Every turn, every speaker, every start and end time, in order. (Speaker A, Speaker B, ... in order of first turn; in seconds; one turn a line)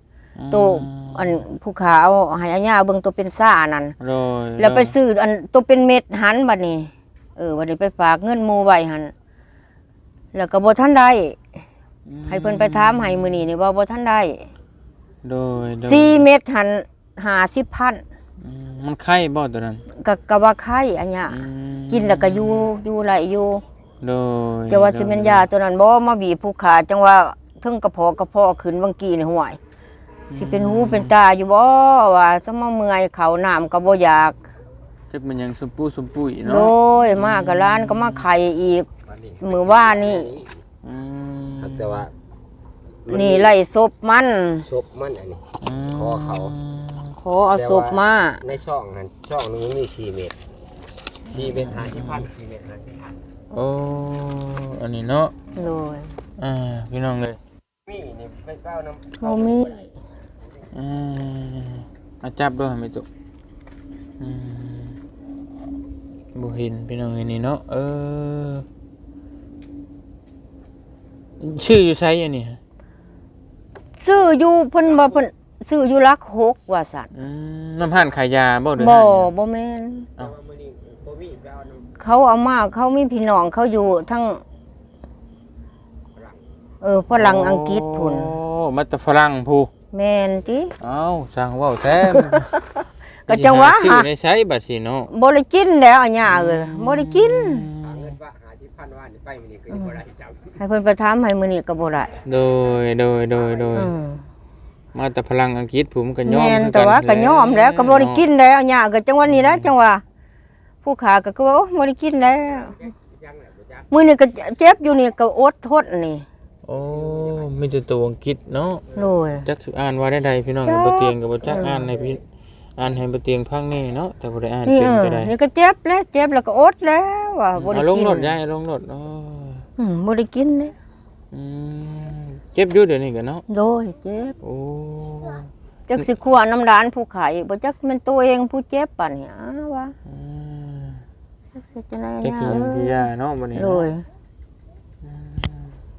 Speaker A: 0.4-1.4
Speaker B: 0.5-4.0
Speaker A: 4.0-4.9
Speaker B: 4.6-9.1
Speaker B: 10.3-11.4
Speaker A: 12.1-13.5
Speaker B: 12.3-14.5
Speaker A: 15.2-16.2
Speaker B: 15.9-18.0
Speaker A: 18.4-19.8
Speaker B: 19.9-23.6
Speaker A: 21.3-22.7
Speaker A: 24.0-25.5
Speaker B: 24.7-29.6
Speaker A: 30.3-31.1
Speaker B: 30.4-34.4
Speaker A: 35.1-38.2
Speaker B: 36.4-38.9
Speaker C: 39.3-40.5
Speaker B: 39.4-40.4
Speaker A: 40.8-42.1
Speaker B: 43.1-44.7
Speaker C: 44.7-45.4
Speaker A: 45.6-47.1
Speaker B: 47.2-48.5
Speaker C: 48.5-50.4
Speaker A: 51.3-52.3
Speaker C: 51.6-53.1
Speaker A: 53.5-55.3
Speaker B: 55.5-56.2
Speaker A: 56.4-57.4
Speaker C: 57.9-59.5
Speaker B: 59.2-59.9
Speaker A: 60.7-63.1
Speaker A: 64.2-65.0
Speaker A: 66.3-68.7
Speaker A: 71.4-72.6
Speaker B: 74.0-77.1
Speaker A: 77.1-79.3
Speaker B: 78.8-80.1
Speaker C: 80.5-81.7
Speaker B: 82.0-84.4
Speaker B: 86.8-88.4
Speaker A: 87.1-89.7
Speaker B: 89.9-90.8
Speaker A: 90.8-92.5
Speaker B: 92.0-94.1
Speaker A: 93.3-95.1
Speaker B: 95.1-97.7
Speaker A: 96.3-98.2
Speaker C: 98.0-100.3
Speaker B: 99.7-100.0
Speaker B: 100.6-102.2
Speaker A: 102.2-103.9
Speaker B: 103.7-104.3
Speaker A: 104.9-108.2
Speaker B: 106.2-110.0
Speaker A: 109.3-109.7
Speaker B: 110.8-112.8
Speaker B: 113.9-116.3
Speaker A: 116.7-118.8
Speaker B: 119.0-119.5
Speaker A: 119.4-122.2
Speaker B: 120.7-121.9
Speaker A: 122.8-125.3
Speaker B: 124.7-128.4
Speaker A: 127.5-129.6
Speaker B: 129.8-130.8
Speaker A: 131.3-133.4
Speaker B: 133.5-134.3
Speaker A: 134.4-135.5
Speaker B: 135.9-139.9
Speaker A: 140.1-141.0
Speaker B: 141.6-143.0
Speaker A: 142.2-143.9
Speaker B: 143.6-144.1
Speaker A: 145.0-145.8